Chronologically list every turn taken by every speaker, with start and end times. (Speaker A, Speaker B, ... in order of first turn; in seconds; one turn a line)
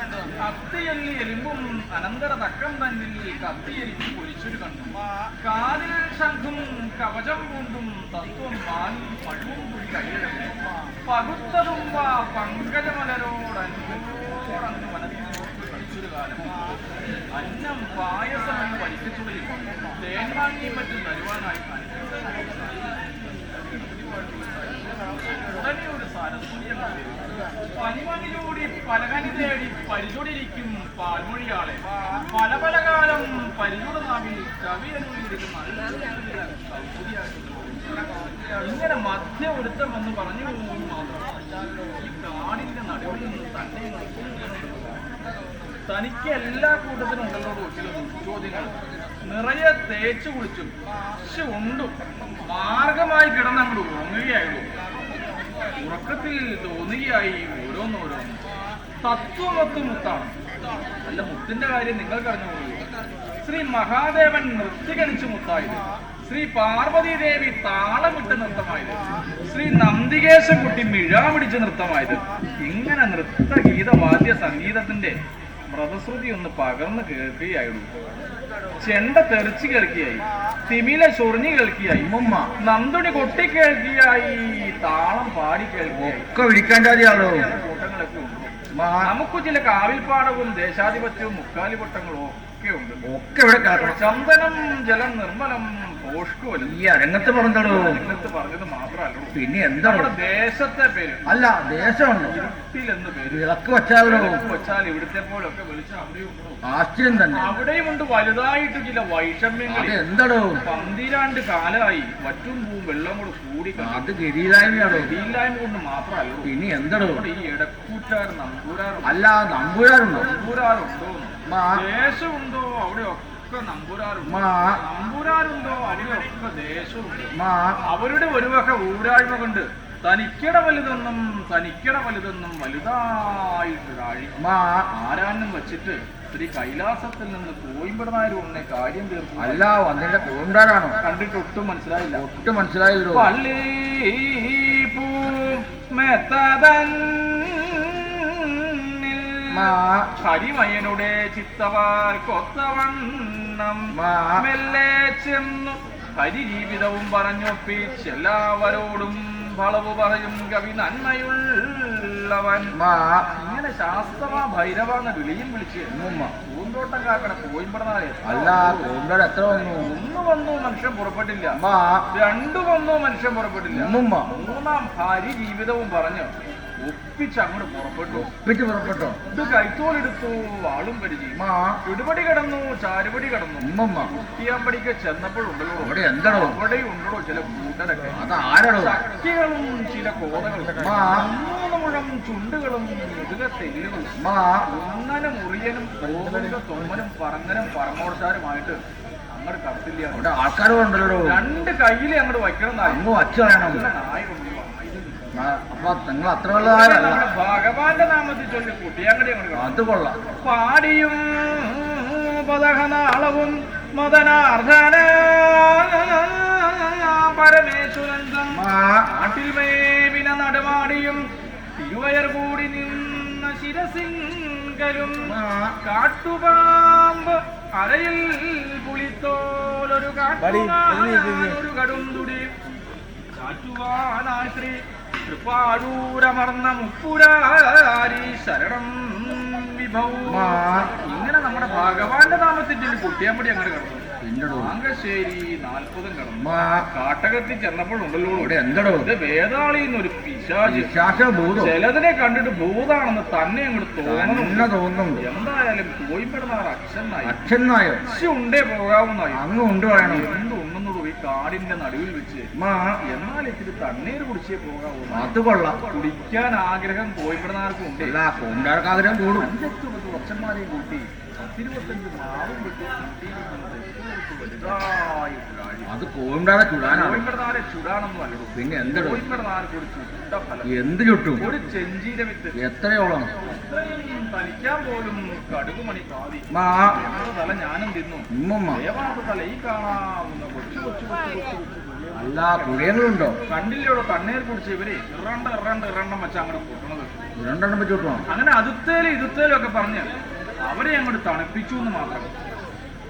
Speaker A: 0.4-16.7
Speaker A: 17.3-45.1
Speaker A: 45.9-54.7
Speaker A: 55.7-58.5
Speaker A: 59.0-60.4
Speaker A: 61.0-62.9
Speaker A: 63.4-75.2
Speaker A: 75.7-77.9
Speaker A: 78.8-93.0
Speaker B: 82.0-82.5
Speaker B: 85.9-87.5
Speaker B: 88.7-89.1
Speaker B: 93.0-94.1
Speaker A: 93.8-96.8
Speaker B: 96.6-98.1
Speaker A: 97.6-101.2
Speaker B: 99.3-100.1
Speaker B: 101.2-102.4
Speaker A: 102.2-103.4
Speaker B: 103.2-104.5
Speaker A: 104.0-106.6
Speaker B: 106.6-107.6
Speaker A: 107.3-110.0
Speaker B: 109.7-110.6
Speaker A: 110.6-114.2
Speaker B: 113.8-115.2
Speaker A: 114.7-119.2
Speaker B: 116.4-117.2
Speaker B: 119.0-120.4
Speaker A: 120.1-134.3
Speaker B: 121.5-121.8
Speaker B: 124.2-124.8
Speaker B: 127.3-127.8
Speaker B: 134.4-134.9
Speaker A: 134.9-139.7
Speaker B: 139.4-141.0
Speaker A: 141.0-142.2
Speaker B: 142.1-143.3
Speaker A: 143.1-162.7
Speaker B: 149.5-150.1
Speaker B: 153.9-154.5
Speaker B: 162.7-163.3
Speaker A: 163.3-168.9
Speaker B: 165.9-166.3
Speaker B: 168.2-169.9
Speaker A: 169.6-171.6
Speaker B: 171.5-172.1
Speaker A: 172.1-178.3
Speaker B: 173.7-174.3
Speaker B: 178.1-179.2
Speaker A: 179.3-200.3
Speaker B: 181.3-181.8
Speaker B: 183.6-184.1
Speaker B: 185.8-186.6
Speaker B: 188.1-189.0
Speaker B: 190.8-191.3
Speaker B: 194.2-194.7
Speaker B: 200.1-201.4
Speaker A: 201.2-205.3
Speaker B: 202.8-203.9
Speaker B: 205.3-207.3
Speaker A: 206.5-209.8
Speaker B: 209.5-210.2
Speaker A: 210.4-221.2
Speaker B: 218.5-219.1
Speaker A: 221.8-232.5
Speaker B: 225.2-225.8
Speaker B: 230.4-231.6
Speaker A: 233.3-251.0
Speaker B: 240.3-240.9
Speaker B: 244.2-244.7
Speaker B: 246.4-246.9
Speaker B: 248.4-249.1
Speaker B: 250.6-251.8
Speaker A: 251.6-257.4
Speaker B: 254.1-255.2
Speaker B: 257.2-258.0
Speaker A: 258.0-259.4
Speaker B: 259.3-260.4
Speaker A: 260.0-262.5
Speaker B: 262.6-262.9
Speaker A: 263.0-268.5
Speaker B: 265.1-266.0
Speaker B: 268.0-269.5
Speaker A: 269.2-275.9
Speaker B: 275.9-277.2
Speaker A: 276.9-280.7
Speaker B: 278.5-279.2
Speaker B: 280.6-281.5
Speaker A: 281.4-282.6
Speaker B: 282.5-283.3
Speaker A: 283.4-297.1
Speaker B: 286.5-287.0
Speaker B: 288.3-288.8
Speaker B: 292.1-293.4
Speaker B: 297.4-298.2
Speaker A: 298.3-300.1
Speaker A: 300.6-302.4